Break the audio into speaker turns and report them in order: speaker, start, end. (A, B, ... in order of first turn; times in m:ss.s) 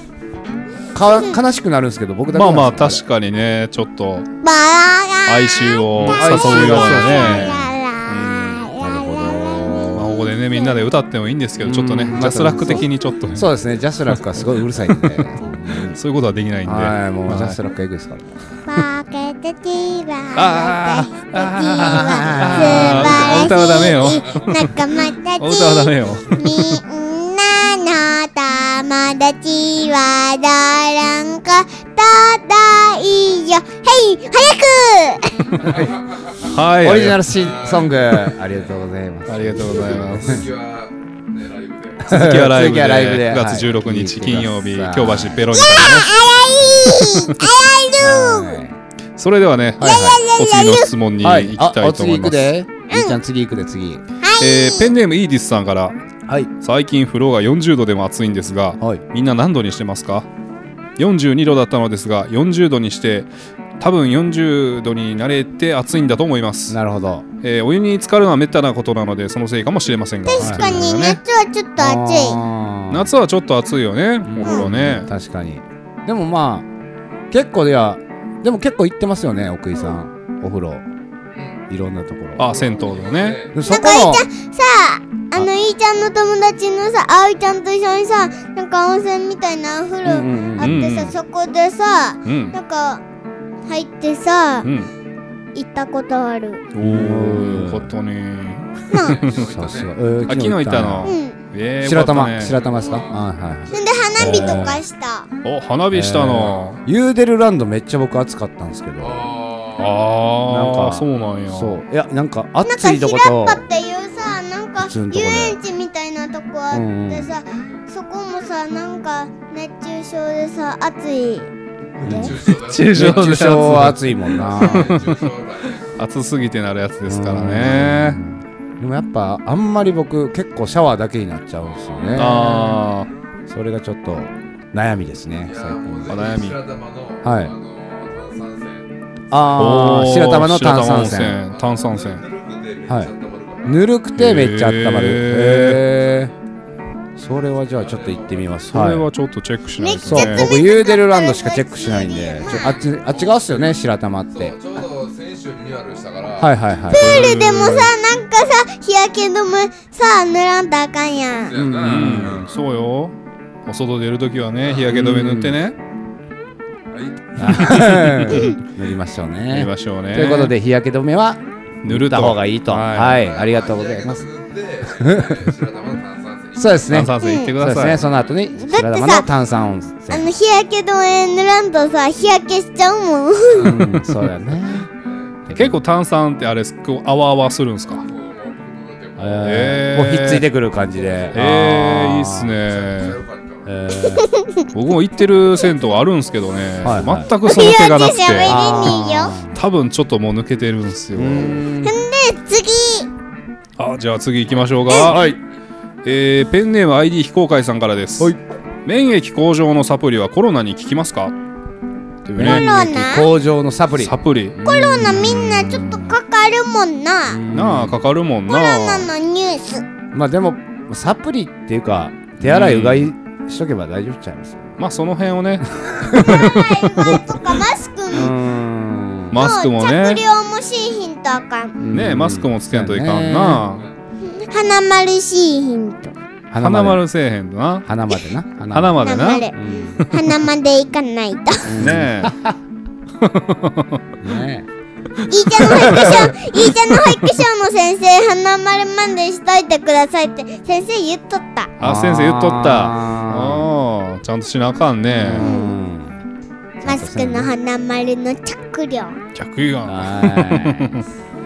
0:00.9-0:03.0 A
0:02.3-0:04.3 B
0:04.4-0:10.8 C
0:05.3-0:08.7 B
0:06.0-0:07.7 A
0:08.8-0:10.1 A
0:09.9-0:13.5 B
0:11.6-0:16.0 A
0:14.9-0:17.6 B
0:16.6-0:18.6 A
0:18.7-0:35.8 C
0:20.4-0:24.8 B
0:21.8-0:23.6 A
0:25.4-0:26.8 B
0:36.4-0:37.2 B
0:36.8-0:40.5 A
0:37.3-0:38.5 D
0:39.3-0:40.5 B
0:39.9-0:42.1 D
0:42.0-0:45.6 A
0:42.1-0:46.1 B
0:45.5-0:48.6 C
0:48.0-0:48.8 A
0:49.2-0:52.5 B
0:49.8-0:50.2 A
0:49.8-0:50.9 C
0:51.2-0:54.0 A
0:52.9-0:53.2 C
0:54.2-0:54.9 C
0:54.4-0:56.0 B
0:56.6-1:00.3 B
1:01.0-1:03.3 B
1:03.8-1:06.8 B
1:06.7-1:07.3 A
1:07.4-1:11.2 B
1:10.2-1:12.4 C
1:10.4-1:10.8 A
1:11.8-1:13.1 A
1:12.9-1:15.1 B
1:14.2-1:16.7 A
1:17.3-1:20.9 A
1:21.7-1:22.6 A
1:22.4-1:23.5 B
1:22.5-1:23.6 D
1:23.5-1:24.3 A
1:23.7-1:33.0 C
1:30.0-1:30.8 A
1:30.6-1:31.2 B
1:32.2-1:32.6 B
1:33.7-1:34.7 C
1:34.6-1:34.9 B
1:35.6-1:36.6 C
1:36.7-1:39.4 B
1:36.8-1:37.9 A
1:38.9-1:39.2 C
1:38.9-1:40.0 D
1:39.3-1:41.2 A
1:40.3-1:42.6 B
1:41.0-1:41.4 C
1:41.8-1:44.8 A
1:42.6-1:43.1 D
1:43.7-1:45.3 C
1:45.4-1:46.8 B
1:45.9-1:49.2 A
1:46.4-1:46.8 D
1:49.0-1:49.9 D
1:49.8-1:51.8 B
1:50.5-1:53.6 A
1:52.6-2:01.5 C
1:54.8-1:55.6 A
1:56.7-1:57.3 A
2:02.0-2:05.9 D
2:02.0-2:02.4 A
2:02.0-2:02.3 C
2:02.5-2:05.2 B
2:02.9-2:05.0 A
2:06.0-2:08.2 B
2:07.1-2:12.8 A
2:11.6-2:12.4 D
2:12.2-2:13.1 B
2:13.5-2:16.2 A
2:15.4-2:18.9 D
2:16.1-2:16.6 B
2:17.2-2:17.6 A
2:19.3-2:21.4 A
2:19.6-2:22.2 B
2:21.5-2:23.8 D
2:22.9-2:23.1 A
2:23.7-2:26.3 A
2:24.2-2:25.8 B
2:27.2-2:29.1 A
2:27.8-2:28.5 D
2:28.7-2:30.5 B
2:29.8-2:32.8 C
2:30.0-2:34.6 A
2:32.5-2:33.7 D
2:34.4-2:36.6 D
2:36.4-2:37.2 A
2:36.9-2:41.6 C
2:36.9-2:37.9 B
2:41.5-2:42.5 D
2:41.5-2:42.5 A
2:41.8-2:43.1 B
2:43.7-2:45.8 B
2:44.9-2:45.6 A
2:46.9-2:47.8 D
2:47.4-2:54.2 A
2:47.5-2:48.4 B
2:49.5-2:50.5 B
2:51.8-2:53.2 B
2:53.2-2:57.0 D
2:54.8-2:55.5 A
2:56.6-3:00.3 A
2:56.9-2:58.0 B
2:57.2-2:57.5 C
2:58.6-2:59.3 C
3:00.1-3:03.9 C
3:03.6-3:04.9 A
3:05.0-3:05.4 D
3:05.5-3:05.8 A
3:05.5-3:08.0 B
3:08.0-3:09.8 D
3:09.2-3:12.6 A
3:09.4-3:10.5 B
3:10.9-3:11.4 D
3:11.3-3:13.2 B
3:12.6-3:13.7 D
3:13.6-3:14.3 A
3:14.0-3:14.7 C
3:14.7-3:19.0 B
3:16.8-3:17.3 A
3:17.4-3:19.4 C
3:18.4-3:19.6 A
3:19.5-3:21.7 B
3:21.1-3:22.0 A
3:21.8-3:23.1 C
3:23.8-3:25.3 B
3:25.0-3:25.4 A
3:26.0-3:28.3 B
3:28.8-3:31.3 B
3:32.2-3:32.7 B
3:32.4-3:35.4 A
3:32.4-3:33.3 C
3:34.0-3:36.2 B
3:34.6-3:37.4 C
3:37.3-3:38.0 A
3:37.5-3:39.1 B
3:38.5-3:39.8 C
3:40.1-3:44.8 A
3:42.4-3:43.1 B
3:44.8-3:46.6 B
3:45.8-3:47.2 A
3:46.2-3:48.3 C
3:48.1-3:49.4 A
3:49.3-3:50.2 B
3:49.3-3:51.8 C
3:51.8-3:53.7 A
3:51.9-3:53.8 B
3:54.2-3:56.2 C
3:56.5-3:57.0 A
3:56.6-3:57.9 B
3:57.8-4:00.0 A
3:58.7-4:00.4 B
3:59.0-4:01.8 C
4:01.6-4:02.6 A
4:01.8-4:02.4 B
4:03.2-4:04.0 B
4:04.2-4:04.7 A
4:05.3-4:11.7 C
4:05.6-4:06.4 A
4:11.8-4:13.7 A
4:11.8-4:15.5 B
4:15.1-4:16.2 A
4:15.4-4:15.7 C
4:16.8-4:17.5 A
4:16.8-4:19.2 C
4:19.4-4:21.1 B
4:19.9-4:21.0 A